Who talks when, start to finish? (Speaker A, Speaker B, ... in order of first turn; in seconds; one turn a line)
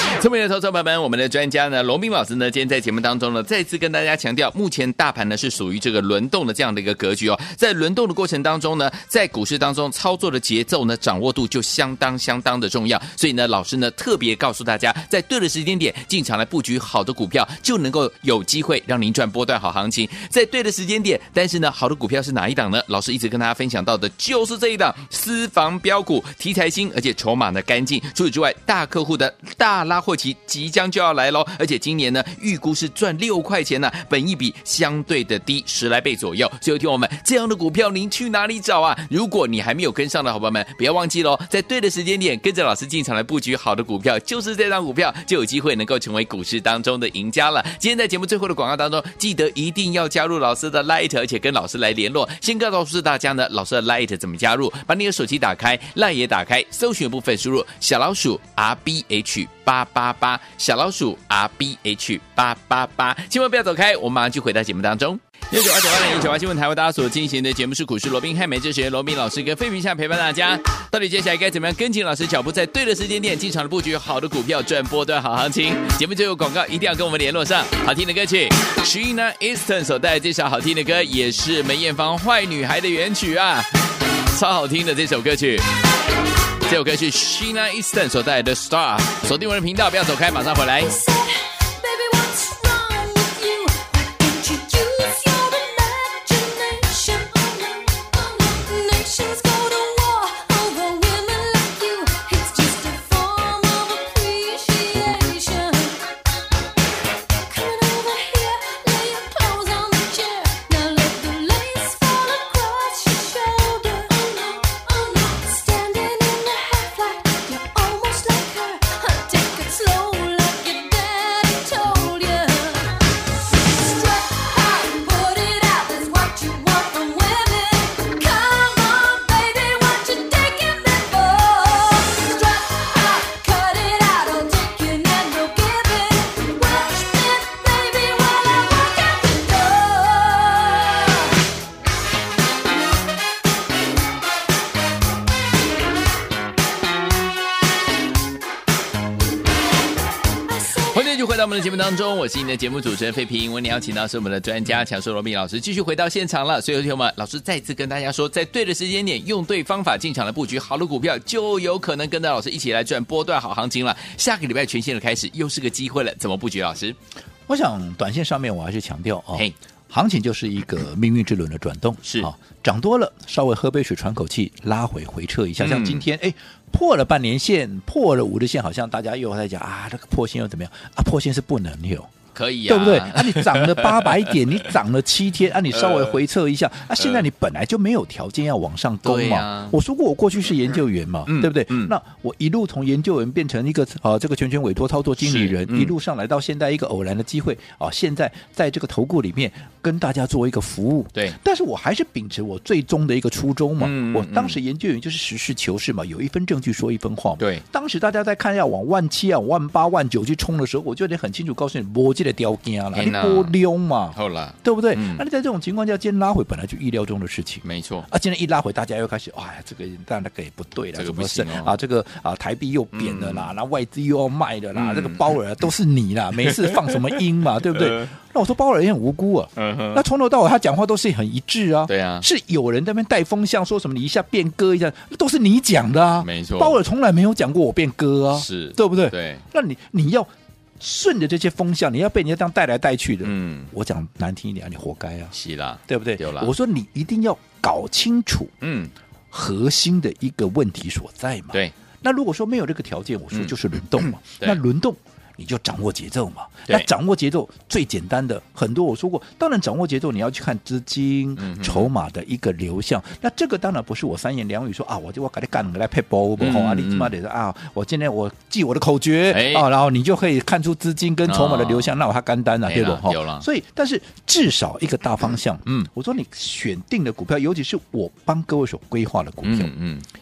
Speaker A: 0.2-83.7
Speaker A: 84.3-85.7
Speaker A: 86.6-91.0
Speaker B: 90.8-106.1
Speaker B: 107.4-141.4
Speaker B: 150.5-151.0
Speaker A: 150.8-167.0
Speaker C: 167.5-182.1
Speaker A: 172.0-172.3
Speaker A: 175.6-176.0
Speaker A: 182.3-184.5
Speaker C: 182.7-245.3
Speaker A: 185.7-186.1
Speaker A: 187.0-187.2
Speaker A: 189.0-189.8
Speaker A: 191.2-191.9
Speaker A: 195.2-195.9
Speaker A: 203.8-204.6
Speaker A: 212.9-213.6
Speaker A: 214.1-215.2
Speaker A: 217.6-218.1
Speaker A: 220.9-221.7
Speaker A: 222.9-223.5
Speaker A: 224.8-225.3
Speaker A: 226.4-227.1
Speaker A: 227.7-228.1
Speaker A: 229.6-230.0
Speaker A: 231.9-232.2
Speaker A: 236.2-236.8
Speaker A: 238.4-239.4
Speaker A: 243.2-243.7
Speaker A: 245.3-246.5
Speaker C: 245.9-248.5
Speaker A: 248.6-248.9
Speaker C: 249.3-279.7
Speaker A: 253.3-254.6
Speaker A: 261.4-261.9
Speaker A: 266.4-267.1
Speaker A: 269.3-269.7
Speaker A: 271.2-271.9
Speaker A: 272.7-273.4
Speaker A: 279.4-280.1